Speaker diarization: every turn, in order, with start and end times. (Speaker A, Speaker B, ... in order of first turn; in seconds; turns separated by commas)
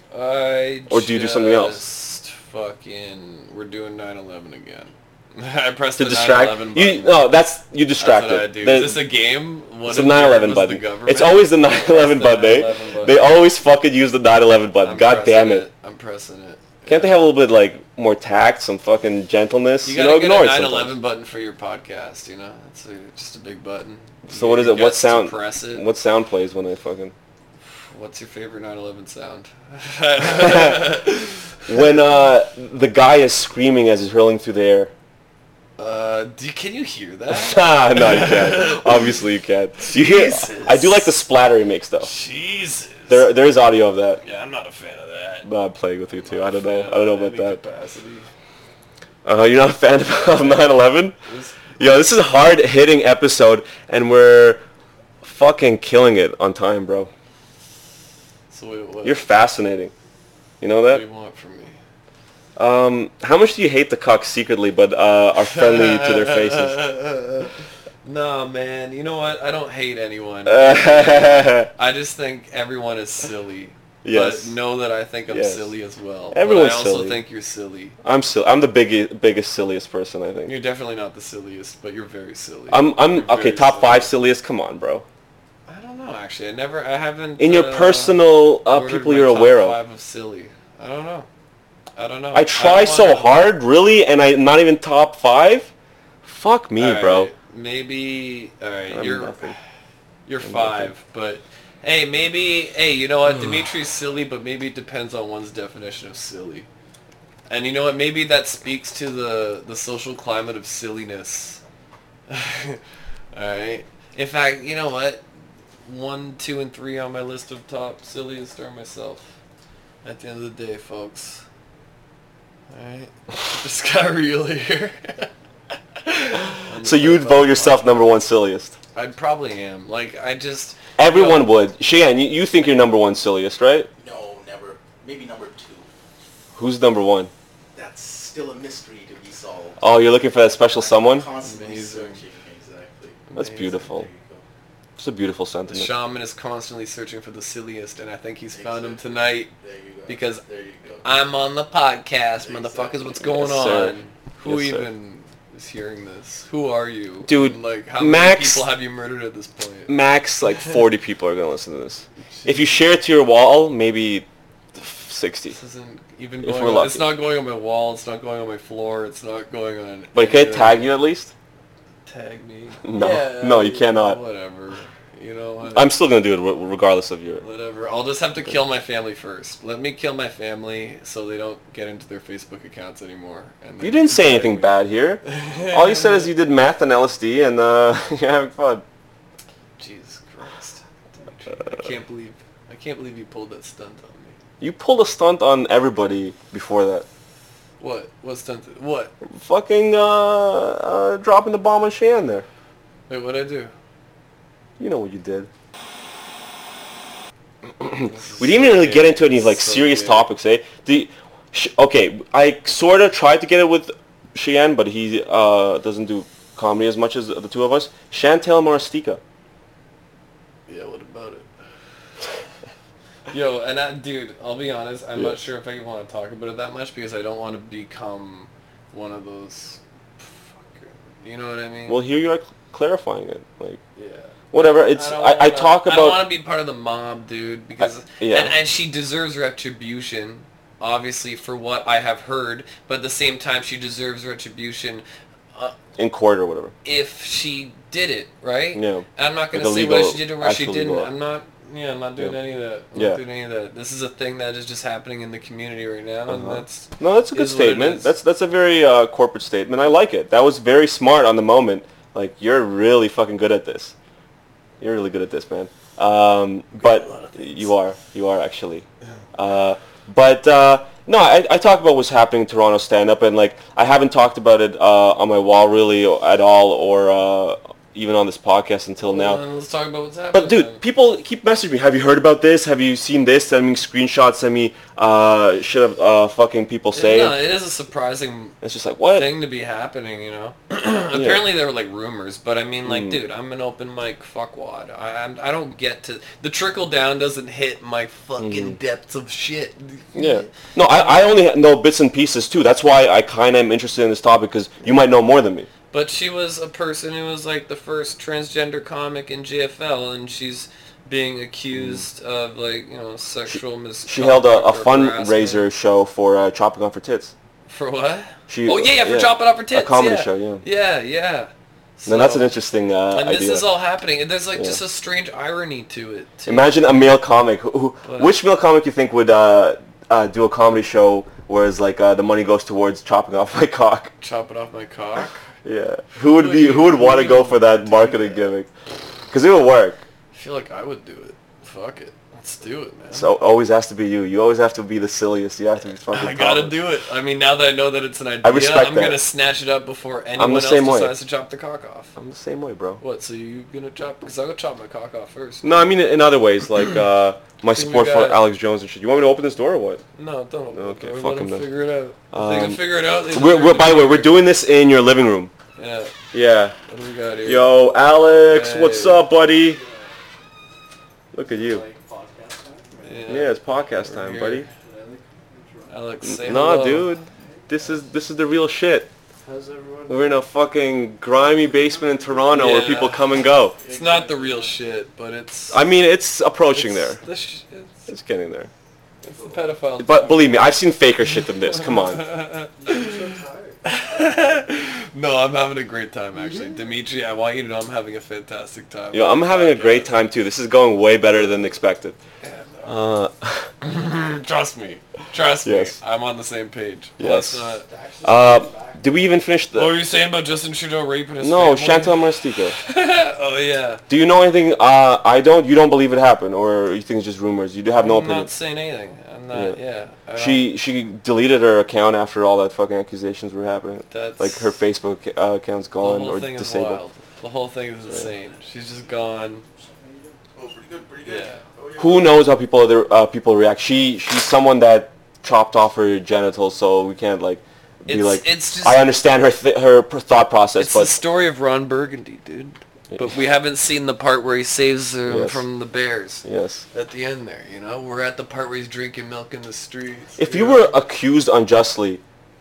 Speaker A: 0.1-7.2, Speaker B: 0.9-1.8, Speaker B: 6.0-9.0, Speaker A: 8.0-13.2, Speaker B: 9.8-15.7, Speaker A: 14.8-17.2, Speaker B: 16.9-20.9, Speaker A: 19.8-25.8, Speaker B: 24.3-27.1, Speaker A: 27.8-31.8, Speaker B: 30.2-31.0, Speaker B: 31.7-34.9, Speaker A: 35.8-39.2, Speaker B: 37.3-42.1, Speaker A: 39.8-41.0, Speaker A: 42.0-43.3, Speaker B: 43.1-44.2, Speaker A: 44.2-45.5, Speaker B: 45.4-47.6, Speaker A: 46.2-48.3, Speaker B: 49.2-51.1, Speaker A: 51.2-51.8, Speaker B: 51.8-54.6, Speaker B: 55.2-57.1, Speaker A: 58.5-59.2, Speaker B: 59.0-59.9, Speaker B: 60.6-61.0, Speaker A: 60.9-61.8, Speaker B: 62.5-66.8, Speaker A: 65.4-67.5, Speaker A: 68.0-78.0, Speaker B: 70.5-71.7, Speaker B: 74.0-74.5, Speaker B: 75.3-75.7, Speaker B: 76.3-77.2, Speaker B: 78.0-80.5, Speaker A: 80.5-84.1, Speaker B: 82.7-85.0, Speaker A: 85.7-91.3, Speaker B: 87.4-89.8, Speaker A: 92.0-93.4, Speaker B: 92.3-95.7, Speaker B: 96.2-97.3, Speaker A: 96.8-99.5, Speaker B: 98.9-99.5, Speaker A: 100.2-106.7, Speaker B: 100.4-100.9, Speaker A: 107.5-111.6, Speaker A: 112.3-112.8, Speaker A: 113.3-115.2, Speaker A: 115.8-119.2, Speaker A: 120.0-121.4, Speaker A: 122.7-125.3, Speaker A: 126.0-128.0, Speaker B: 126.7-128.8, Speaker A: 128.9-131.5, Speaker B: 131.0-133.9, Speaker C: 134.0-135.9, Speaker B: 136.5-137.3, Speaker C: 137.7-139.9, Speaker B: 139.8-141.3, Speaker C: 140.6-143.2, Speaker A: 141.4-142.2, Speaker A: 143.3-143.9, Speaker B: 143.3-144.1, Speaker C: 143.9-144.4, Speaker B: 145.0-145.9, Speaker A: 145.7-149.5, Speaker C: 148.5-151.1, Speaker A: 150.1-150.4, Speaker A: 151.0-159.9, Speaker C: 152.4-153.1, Speaker B: 153.2-154.9, Speaker B: 157.3-158.7, Speaker B: 159.9-165.6, Speaker A: 162.3-162.7, Speaker A: 165.5-170.9, Speaker B: 166.4-167.0, Speaker B: 170.1-171.3, Speaker A: 172.1-175.9, Speaker B: 172.8-174.2, Speaker B: 175.7-177.4, Speaker A: 177.4-186.3, Speaker B: 183.8-188.8, Speaker A: 189.8-194.4, Speaker B: 194.6-197.0, Speaker A: 197.8-199.1, Speaker B: 199.3-202.4, Speaker A: 203.1-203.7, Speaker B: 204.8-205.5, Speaker B: 207.8-219.2, Speaker A: 208.0-210.3, Speaker A: 220.7-221.5, Speaker A: 223.3-232.0, Speaker B: 231.9-233.8, Speaker A: 233.9-245.7, Speaker B: 234.5-236.2, Speaker B: 237.8-238.5, Speaker B: 246.0-246.7, Speaker A: 246.8-258.1, Speaker B: 248.7-251.1, Speaker B: 252.9-253.2, Speaker B: 256.3-263.9, Speaker B: 264.8-279.4, Speaker A: 266.8-267.6, Speaker A: 279.0-280.8, Speaker B: 280.3-287.4, Speaker A: 286.9-288.6, Speaker B: 288.6-289.3, Speaker A: 289.1-301.2, Speaker B: 291.1-291.4, Speaker B: 292.8-293.2, Speaker B: 298.4-298.8, Speaker B: 300.1-305.7, Speaker A: 305.9-315.6, Speaker B: 311.7-312.0, Speaker B: 313.5-317.3, Speaker A: 317.7-322.5, Speaker B: 318.5-320.6, Speaker B: 322.1-323.6, Speaker A: 323.1-326.8, Speaker B: 326.4-334.1, Speaker A: 328.0-328.3, Speaker A: 334.2-335.4, Speaker B: 335.6-338.7, Speaker A: 336.2-338.5, Speaker B: 339.3-340.0, Speaker A: 340.3-343.3, Speaker B: 343.1-346.7, Speaker A: 346.1-352.1, Speaker B: 348.4-349.2, Speaker B: 350.4-351.1, Speaker B: 352.1-353.0, Speaker A: 353.0-355.8, Speaker B: 355.6-360.0, Speaker A: 357.7-358.4, Speaker A: 360.1-364.4, Speaker B: 360.7-361.7, Speaker B: 362.3-365.5, Speaker A: 365.8-366.1, Speaker B: 366.3-366.8, Speaker A: 366.9-367.7, Speaker B: 367.4-369.8, Speaker A: 368.4-369.2, Speaker D: 369.6-370.1, Speaker B: 371.3-371.8, Speaker D: 371.4-373.3, Speaker A: 373.0-374.7, Speaker B: 373.3-374.7, Speaker D: 374.7-376.1, Speaker A: 375.9-377.1, Speaker B: 376.2-379.1, Speaker D: 377.2-378.0, Speaker D: 379.4-380.4, Speaker B: 380.1-383.8, Speaker D: 381.5-383.1, Speaker A: 382.5-383.2, Speaker D: 383.7-384.8, Speaker A: 383.8-385.8, Speaker B: 385.7-387.2, Speaker A: 386.7-388.1, Speaker B: 388.1-388.7, Speaker A: 389.2-390.5, Speaker D: 389.3-389.7, Speaker B: 390.0-392.3, Speaker A: 391.6-400.1, Speaker D: 392.8-394.5, Speaker B: 399.1-402.2, Speaker A: 402.4-402.9, Speaker B: 402.8-403.7, Speaker A: 403.8-407.9, Speaker B: 405.6-406.0, Speaker B: 407.2-407.7, Speaker C: 407.9-409.0, Speaker B: 408.2-410.0, Speaker A: 409.7-412.2, Speaker B: 411.4-412.8, Speaker A: 412.8-414.0, Speaker B: 414.1-418.5, Speaker A: 418.0-420.7, Speaker B: 420.3-427.0, Speaker A: 424.1-424.7, Speaker A: 426.0-429.6, Speaker D: 429.7-430.4, Speaker C: 430.5-432.4, Speaker A: 431.2-431.6, Speaker B: 432.0-441.1, Speaker A: 438.1-439.1, Speaker A: 440.8-450.9, Speaker B: 445.3-445.6, Speaker B: 446.4-446.8, Speaker B: 450.4-452.2